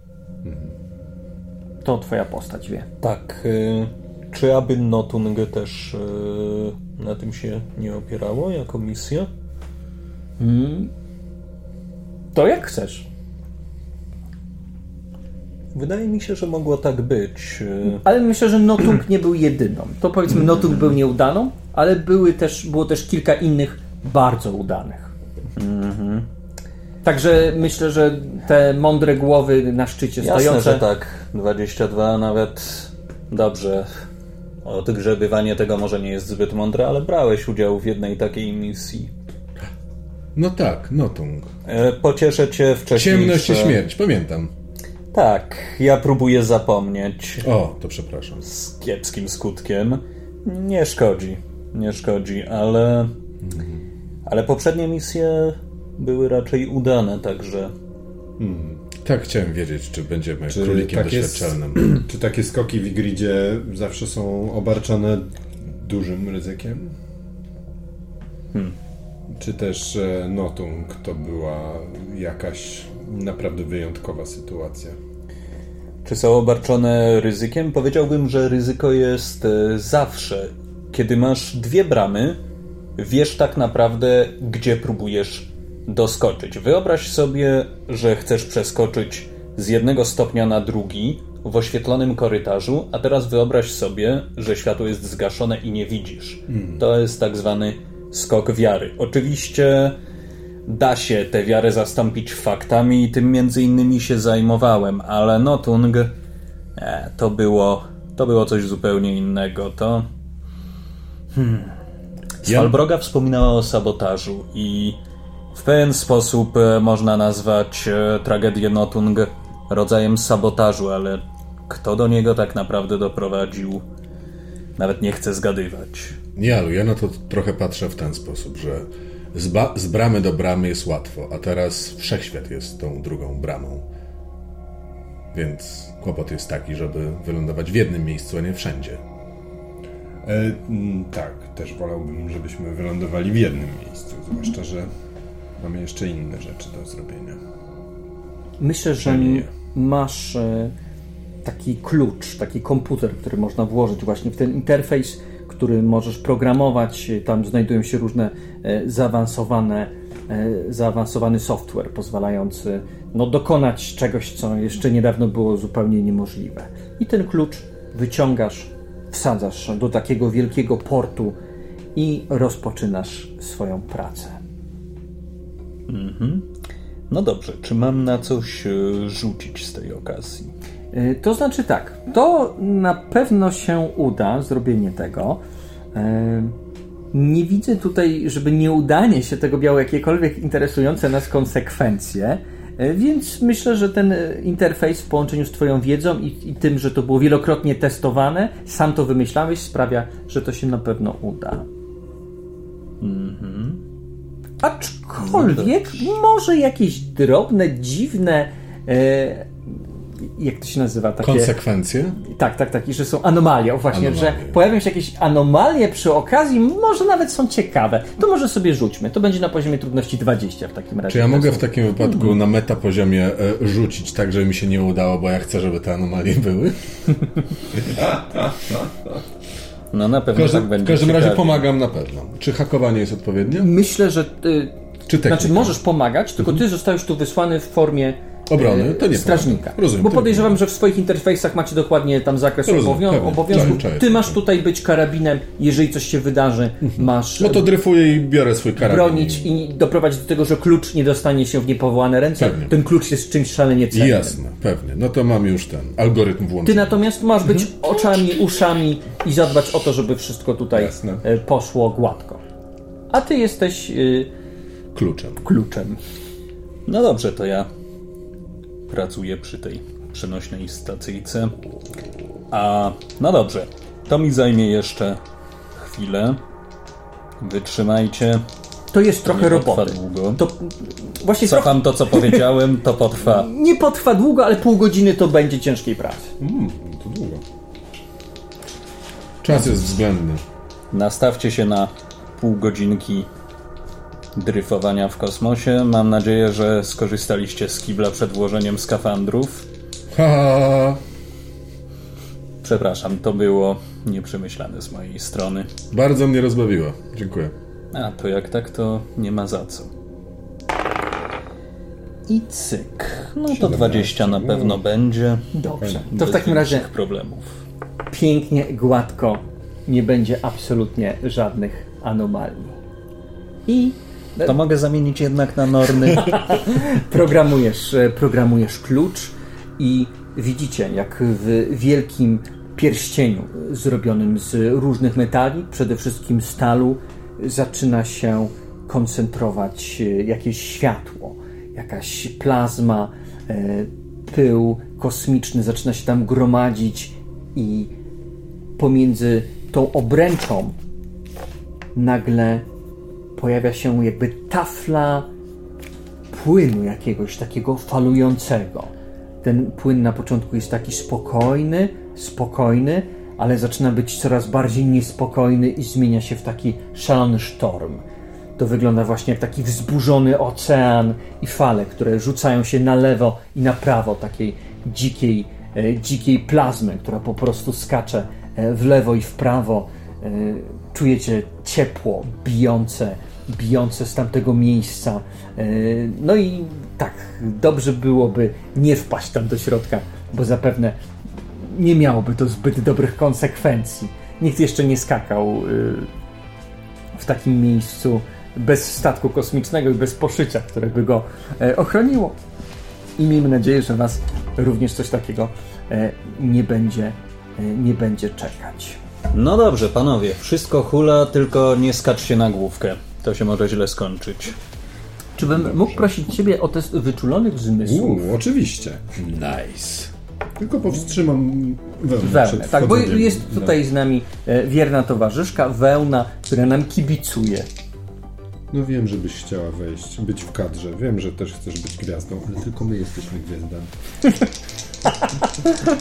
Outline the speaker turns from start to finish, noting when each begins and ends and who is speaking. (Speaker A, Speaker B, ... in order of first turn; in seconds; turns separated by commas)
Speaker A: 0.5-0.8, Speaker B: 1.8-2.9, Speaker C: 3.0-9.3, Speaker B: 10.4-10.9, Speaker B: 12.3-13.1, Speaker C: 15.7-18.1, Speaker B: 18.0-25.1, Speaker C: 20.4-20.9, Speaker C: 25.6-26.3, Speaker B: 27.0-30.8, Speaker C: 30.2-34.0, Speaker C: 34.6-39.1, Speaker D: 40.4-41.5, Speaker C: 41.7-43.8, Speaker D: 43.0-44.5, Speaker C: 45.1-47.5, Speaker D: 47.4-48.5, Speaker C: 48.4-53.1, Speaker D: 53.4-53.8, Speaker C: 54.3-57.7, Speaker A: 58.4-58.9, Speaker D: 59.0-62.0, Speaker A: 60.5-67.0, Speaker A: 69.3-75.0, Speaker C: 76.0-82.4, Speaker C: 83.0-100.0, Speaker C: 100.7-106.2, Speaker C: 106.8-110.1, Speaker C: 111.3-111.8, Speaker C: 112.4-115.0, Speaker D: 112.5-112.8, Speaker C: 115.5-123.8, Speaker C: 124.8-126.2, Speaker D: 126.4-133.8, Speaker D: 135.3-139.0, Speaker A: 140.2-144.9, Speaker A: 145.6-147.4, Speaker B: 148.6-150.7, Speaker B: 151.4-171.4, Speaker B: 171.9-174.4, Speaker C: 175.9-176.5, Speaker C: 177.1-180.5, Speaker B: 180.9-185.4, Speaker B: 185.9-186.6, Speaker B: 187.1-201.7, Speaker C: 203.0-203.8, Speaker B: 204.6-209.5, Speaker C: 205.2-205.7, Speaker B: 210.2-211.5, Speaker D: 211.2-212.2, Speaker B: 212.2-221.7, Speaker D: 213.9-214.6, Speaker D: 221.1-228.1, Speaker A: 228.0-228.9, Speaker C: 229.9-231.7, Speaker D: 230.3-233.7, Speaker B: 233.5-247.7, Speaker D: 235.1-235.8, Speaker D: 238.5-240.6, Speaker D: 242.7-244.4, Speaker D: 246.9-249.5, Speaker B: 248.8-254.4, Speaker D: 252.4-252.8, Speaker D: 253.9-257.0, Speaker B: 256.6-262.4, Speaker A: 260.7-261.2, Speaker B: 263.1-264.3, Speaker D: 264.9-265.4, Speaker B: 265.4-266.0, Speaker C: 266.9-267.7, Speaker C: 268.9-271.6, Speaker C: 272.5-275.2, Speaker C: 275.8-276.4, Speaker C: 277.4-278.5, Speaker B: 278.9-282.4, Speaker C: 279.2-280.4, Speaker C: 281.4-283.5, Speaker B: 283.2-286.3, Speaker A: 286.4-287.4, Speaker D: 289.4-290.4, Speaker C: 290.9-293.3, Speaker C: 294.4-299.6, Speaker D: 300.1-301.0, Speaker C: 302.6-305.7, Speaker D: 305.9-307.5, Speaker C: 307.9-309.9, Speaker C: 312.3-315.5, Speaker A: 313.5-314.8, Speaker B: 315.5-316.9, Speaker A: 315.8-316.1, Speaker C: 316.1-317.5, Speaker B: 318.1-322.8, Speaker B: 323.7-324.6, Speaker C: 324.4-326.6, Speaker B: 326.1-347.9, Speaker B: 348.8-350.8, Speaker B: 351.9-352.7, Speaker B: 353.4-355.3, Speaker B: 356.3-358.9, Speaker B: 359.4-368.0, Speaker B: 368.6-391.0, Speaker B: 391.5-396.1, Speaker B: 397.1-402.4, Speaker B: 403.2-409.0, Speaker C: 409.3-414.6, Speaker B: 415.4-418.3, Speaker A: 417.8-419.1, Speaker D: 419.2-420.1, Speaker A: 420.6-423.8, Speaker B: 422.2-427.7, Speaker A: 428.7-433.9